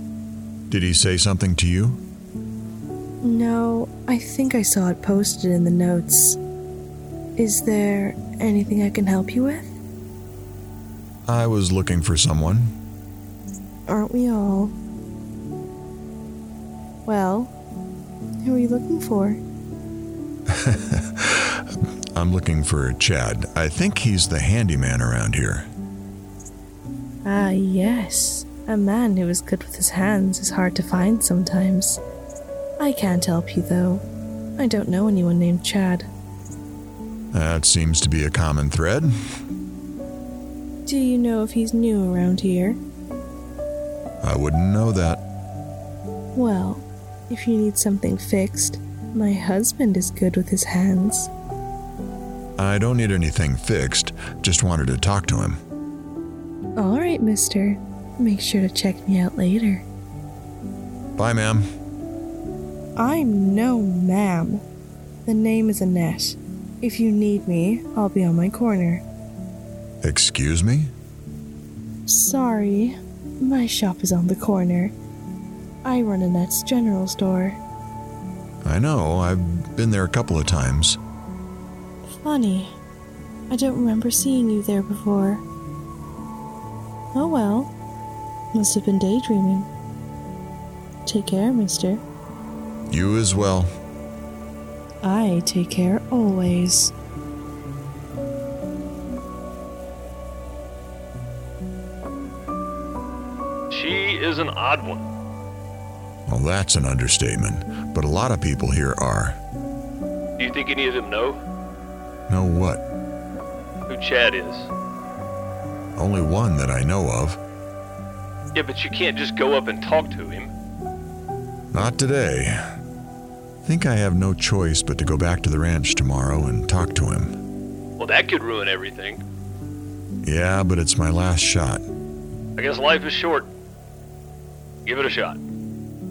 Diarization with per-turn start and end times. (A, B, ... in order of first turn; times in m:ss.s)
0:00.7-0:02.0 A
0:03.2-0:06.4 B
0:07.4-0:09.8 B
0:11.3-0:12.7 A
0:13.9-0:14.8 B
0:17.1-0:17.5 B
0:18.4-0:19.4 B
0:20.5-0:25.7 A
0:27.2-0:32.0 B
0:32.8-0:34.0 B
0:34.6-0:36.1 B
0:37.3-0:39.1 A
0:40.9-0:42.8 B
0:44.2-0:45.2 A
0:46.4-0:51.3 B
0:52.6-0:55.6 A
0:56.8-0:59.9 B
1:01.2-1:01.6 A
1:03.0-1:04.6 B
1:05.2-1:09.0 B
1:10.0-1:10.9 A
1:12.1-1:14.9 B
1:15.8-1:17.6 B
1:18.6-1:21.0 A
1:22.2-1:22.8 B
1:23.5-1:25.4 B
1:27.1-1:27.7 B
1:28.5-1:29.7 B
1:31.1-1:32.0 B
1:32.9-1:33.7 A
1:35.0-1:36.9 B
1:43.7-1:45.1 C
1:46.3-1:49.4 A
1:50.4-1:51.4 C
1:52.3-1:52.8 A
1:53.9-1:54.7 C
1:56.0-1:57.4 A
1:58.5-2:00.5 C
2:01.7-2:02.6 A
2:03.6-2:07.4 A
2:08.0-2:09.2 C
2:10.2-2:11.8 A
2:12.6-2:13.5 C
2:14.8-2:15.4 C